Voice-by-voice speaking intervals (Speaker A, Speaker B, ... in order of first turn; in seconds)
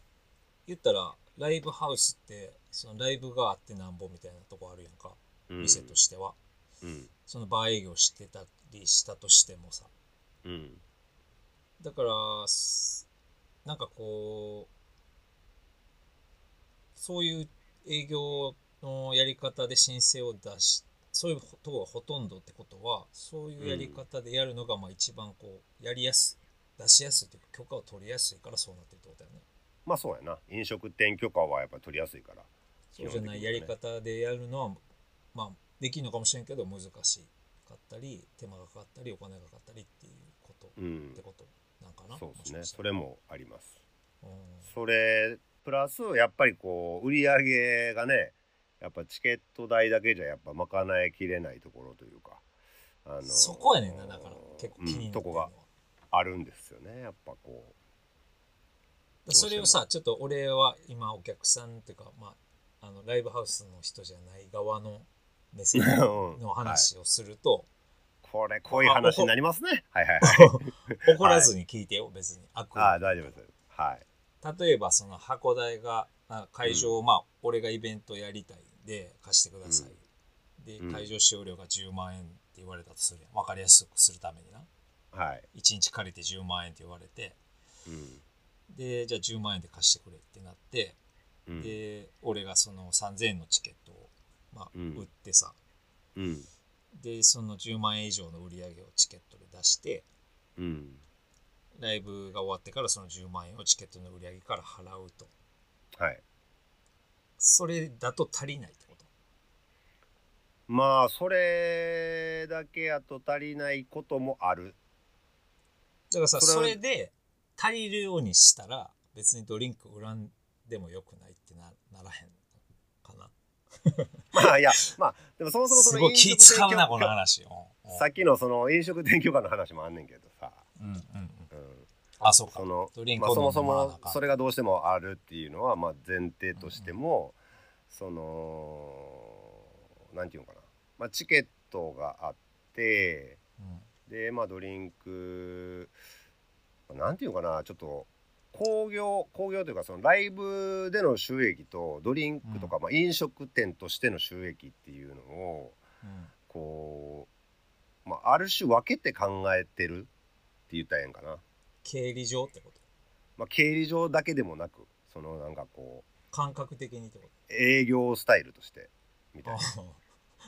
Speaker A: 0.7-6.4, 7.2-9.9, 11.8-13.1, 13.6-14.7, 16.9-29.4, 32.9-34.8, 35.3-42.8, 44.2-44.7, 53.2-55.6, 59.2-67.7, 68.7-69.3, 70.2-73.4, 74.4-80.0, 80.6-84.7, 85.5-87.4, 88.7-91.0, 91.6-95.6, 96.9-100.1, 101.8-105.3, 107.4-109.1, 116.1-122.4, 123.0-124.9, 125.7-128.1, 130.8-131.5, 132.2-134.2, 136.6-137.0, 143.6-143.8, 152.4-152.7, 156.0-156.3, 161.8-162.8, 166.3-167.3, 169.4-170.0
Speaker B: 5.5-6.0, 6.8-7.1, 10.4-10.8, 23.6-24.0, 29.9-33.7, 40.8-41.2, 42.1-43.8, 44.7-52.4, 53.0-55.5, 56.1-57.7, 59.3-59.8, 65.8-66.9, 68.2-71.5, 72.8-74.0, 76.6-76.9, 79.7-79.9, 80.8-81.1, 85.1-85.5, 87.9-88.2, 91.5-91.8, 94.7-95.0, 96.2-96.5, 100.6-101.0, 106.0-106.2, 110.7-114.8, 116.4-116.8, 124.3-127.1, 127.9-130.7, 131.5-131.9, 132.5-137.4, 137.9-143.4, 144.1-145.9, 146.9-155.8, 156.5-157.3, 158.0-160.1, 160.7-161.4, 163.4-166.1, 167.5-169.7